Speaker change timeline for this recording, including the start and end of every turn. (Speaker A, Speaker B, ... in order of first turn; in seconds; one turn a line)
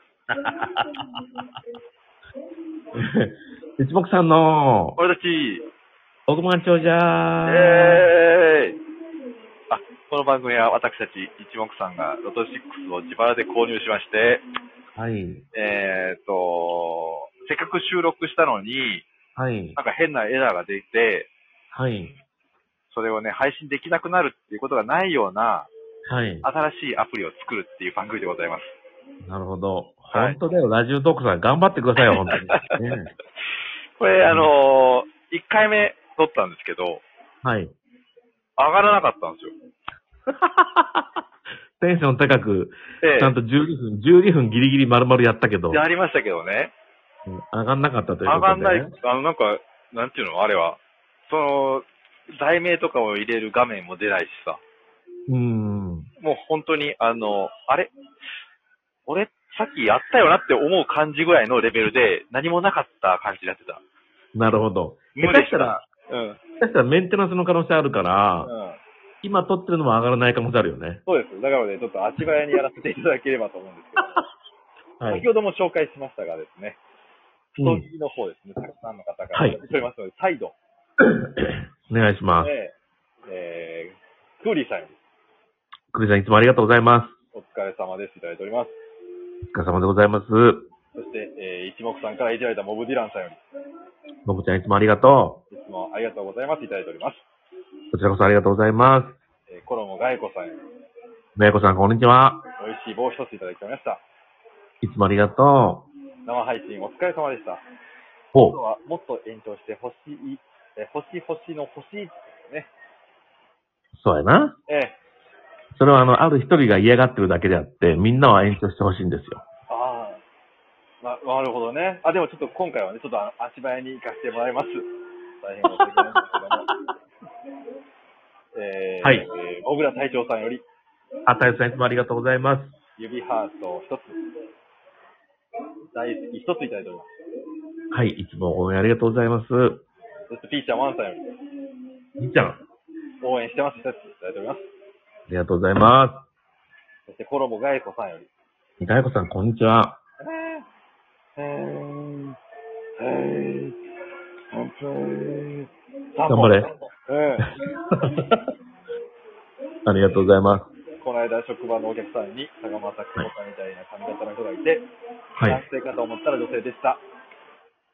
Speaker A: 0.4-0.8
Speaker A: 3.0-5.0
Speaker B: 5.0-5.6
Speaker A: 6.3-8.0
Speaker B: 7.5-8.8
Speaker B: 9.7-14.4
Speaker A: 15.0-15.4
Speaker B: 15.5-19.1
Speaker A: 19.4-19.8
Speaker B: 19.8-21.3
Speaker A: 21.7-22.2
Speaker B: 22.9-25.7
Speaker A: 26.1-26.4
Speaker B: 26.4-28.7
Speaker A: 29.2-33.1
Speaker B: 30.1-30.4
Speaker B: 32.2-32.7
Speaker B: 34.0-37.0
Speaker A: 37.4-37.7
Speaker B: 38.6-39.5
Speaker A: 40.4-41.0
Speaker A: 41.8-45.8
Speaker B: 43.0-43.3
Speaker B: 45.7-46.7
Speaker A: 47.3-48.9
Speaker B: 48.3-51.9
Speaker B: 52.4-54.6
Speaker A: 55.3-56.1
Speaker B: 56.2-57.9
Speaker B: 59.1-63.8
Speaker A: 64.3-65.8
Speaker B: 65.2-66.4
Speaker A: 66.6-68.5
Speaker B: 68.5-68.8
Speaker A: 69.2-71.0
Speaker B: 71.1-74.3
Speaker A: 75.0-75.3
Speaker B: 75.1-76.8
Speaker A: 77.6-77.8
Speaker B: 77.6-80.6
Speaker A: 79.3-79.6
Speaker A: 81.1-82.5
Speaker B: 82.4-82.7
Speaker B: 83.3-85.0
Speaker A: 85.9-87.1
Speaker B: 87.3-88.7
Speaker A: 89.5-90.7
Speaker B: 91.0-93.4
Speaker A: 94.3-95.4
Speaker B: 95.5-97.2
Speaker A: 97.9-99.2
Speaker B: 99.5-100.6
Speaker A: 101.4-102.4
Speaker B: 102.6-104.0
Speaker A: 104.8-105.9
Speaker B: 106.3-107.6
Speaker A: 108.3-108.6
Speaker B: 108.4-112.7
Speaker A: 114.0-114.6
Speaker B: 114.7-115.0
Speaker A: 115.8-119.4
Speaker B: 119.7-120.2
Speaker B: 121.0-124.8
Speaker B: 125.4-126.7
Speaker B: 128.5-130.6
Speaker A: 131.3-132.7
Speaker B: 133.0-134.2
Speaker B: 135.9-137.1
Speaker A: 137.9-139.8
Speaker B: 140.3-141.2
Speaker A: 142.2-142.6
Speaker B: 143.2-144.7
Speaker A: 145.3-146.3
Speaker B: 147.1-148.3
Speaker A: 148.8-150.0
Speaker B: 150.2-150.7
Speaker B: 151.4-152.4
Speaker B: 153.0-153.8
Speaker B: 154.5-157.5
Speaker A: 156.3-156.7
Speaker A: 158.0-158.2
Speaker A: 159.9-160.7
Speaker B: 161.0-164.8
Speaker B: 165.4-167.0